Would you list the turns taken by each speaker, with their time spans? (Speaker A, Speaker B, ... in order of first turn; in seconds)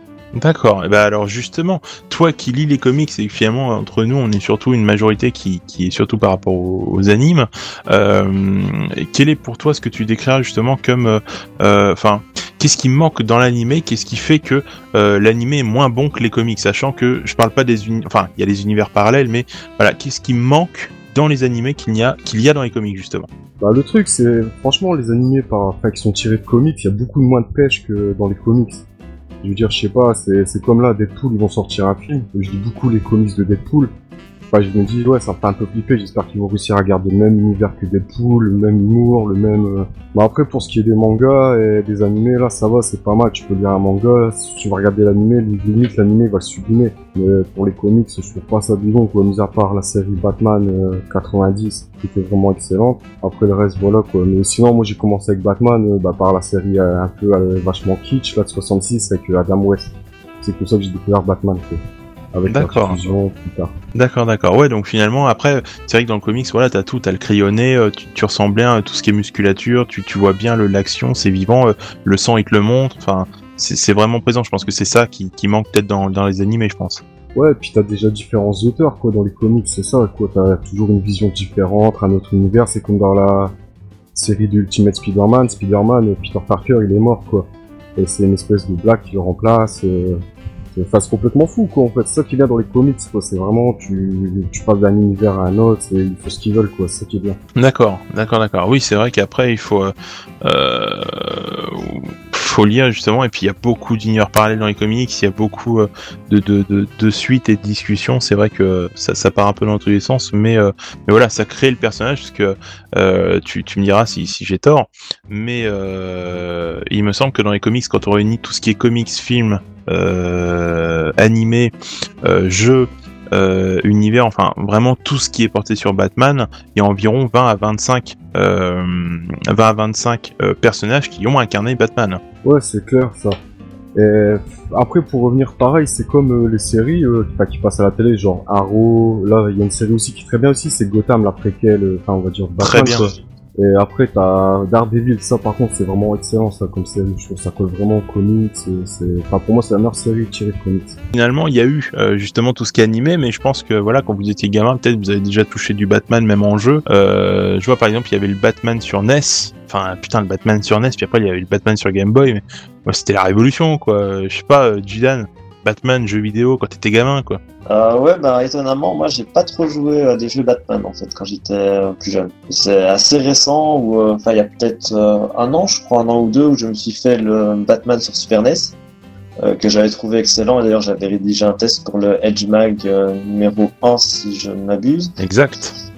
Speaker A: 0.3-23.3, 62.5-63.1, 64.0-77.0, 97.6-132.2, 142.6-143.1, 151.1-167.4, 185.2-185.7
Speaker B: 23.6-28.8, 29.4-33.9, 34.5-61.8, 62.3-63.7, 77.4-83.5, 84.2-90.2, 90.8-97.4, 132.4-133.4, 133.9-151.0
Speaker C: 167.7-178.7, 179.4-185.1